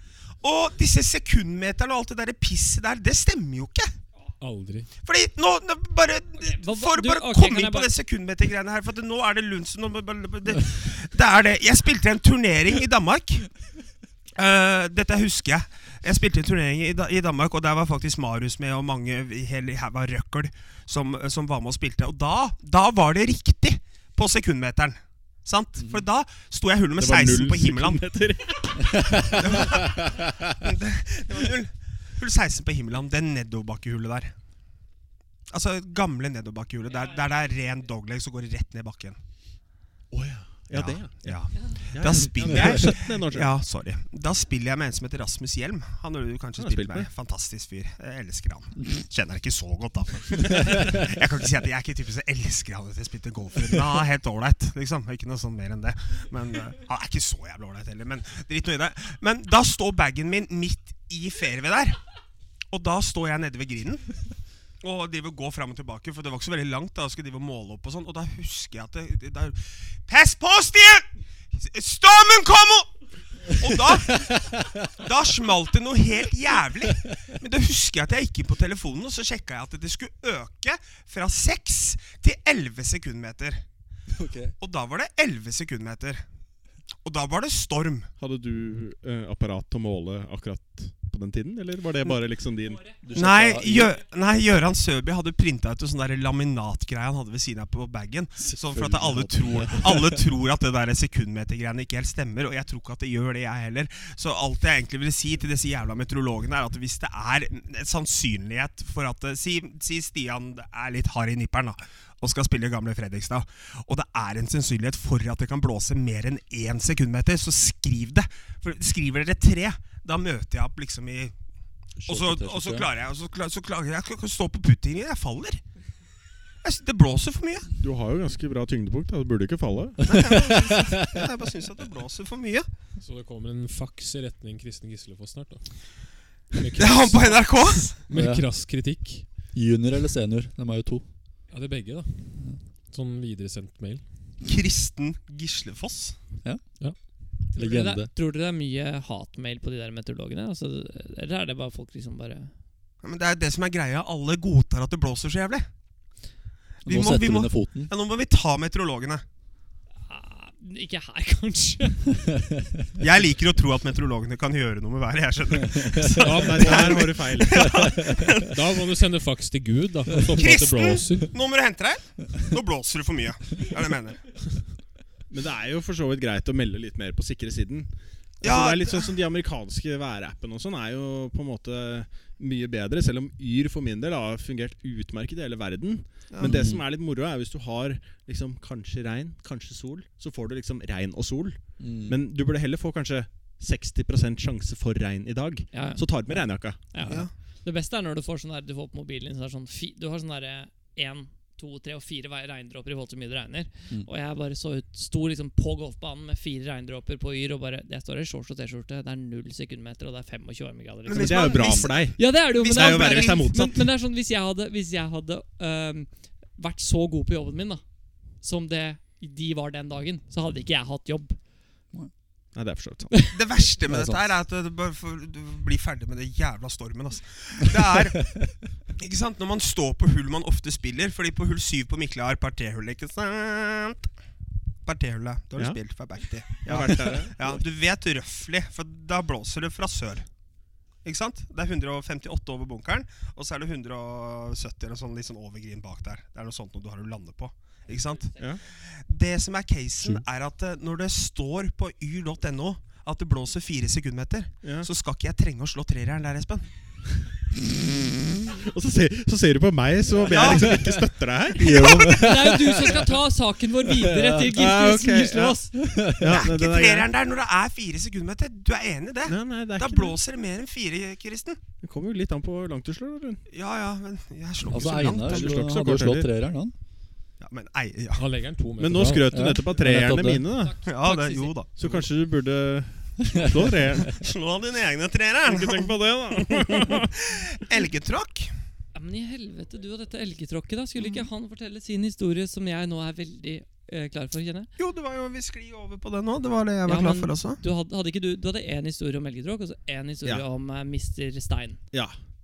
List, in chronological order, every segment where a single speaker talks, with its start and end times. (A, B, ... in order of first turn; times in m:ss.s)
0:00.4-0:03.9 A
0:04.4-0:04.9 B
0:05.0-0:13.5 A
0:06.4-0:07.9 C
0:14.4-0:28.0 A
0:27.0-0:29.8 D
0:29.0-0:29.9 E
0:29.3-0:34.3 A
0:35.5-0:39.2 A
0:40.1-0:41.4 D
0:40.7-1:02.0 A
0:41.9-0:43.6 D
0:42.5-0:42.8 E
0:46.6-0:47.1 D
1:02.7-1:04.1 A
1:04.8-1:11.1 A
1:11.6-1:12.9 A
1:13.5-1:23.6 A
1:24.1-1:24.5 E
1:24.6-1:26.2 A
1:27.0-1:28.1 A
1:28.2-1:32.9 D
1:33.0-1:34.0 E
1:33.1-2:01.4 A
1:38.4-1:40.2 E
2:02.0-2:02.9 E
2:02.1-2:05.6 A
2:06.6-2:07.7 A
2:07.8-2:10.1 D
2:10.0-2:11.3 E
2:10.1-2:12.7 A
2:13.0-2:19.2 B
2:16.8-2:18.0 A
2:18.1-2:18.5 E
2:19.5-2:21.0 E
2:21.5-2:24.0 B
2:24.4-2:26.2 A
2:27.5-2:28.1 E
2:27.5-2:32.5 C
2:33.0-2:35.7 A
2:36.8-2:37.9 E
2:36.8-2:39.2 A
2:40.1-2:42.1 C
2:43.0-2:48.6 A
2:46.1-2:47.0 B
2:46.3-2:47.7 D
2:47.6-2:48.4 E
2:48.4-2:51.3 B
2:50.3-2:54.2 A
2:55.3-2:57.9 D
2:58.4-3:16.8 D
2:58.4-2:59.1 A
3:06.3-3:06.6 A
3:06.4-3:06.8 E
3:11.8-3:12.2 E
3:15.7-3:37.8 C
3:31.1-3:33.5 A
3:31.2-3:33.9 D
3:38.4-3:41.4 C
3:42.6-3:43.2 D
3:43.3-3:48.4 A
3:43.9-3:44.2 E
3:49.0-3:54.1 A
3:54.8-4:00.3 A
3:56.6-3:57.6 D
4:01.0-4:16.7 A
4:14.6-4:14.9 D
4:18.5-4:22.2 D
4:20.2-4:20.9 A
4:20.5-4:20.9 E
4:21.6-4:23.1 E
4:21.8-4:25.7 C
4:23.9-4:24.5 E
4:24.4-4:27.1 D
4:25.7-4:26.5 E
4:26.3-4:31.6 A
4:29.3-4:30.2 D
4:31.8-4:33.4 D
4:33.5-4:35.6 A
4:34.7-4:36.7 E
4:34.7-4:36.3 D
4:37.4-4:38.2 A
4:38.2-4:39.4 B
4:38.8-4:40.8 D
4:39.0-4:40.5 E
4:40.5-4:41.6 C
4:40.8-4:42.0 A
4:41.8-4:44.2 D
4:44.0-4:45.9 A
4:45.5-4:47.3 D
4:46.4-4:48.5 A
4:49.0-4:54.7 C
4:54.8-4:57.6 A
4:56.9-5:01.8 C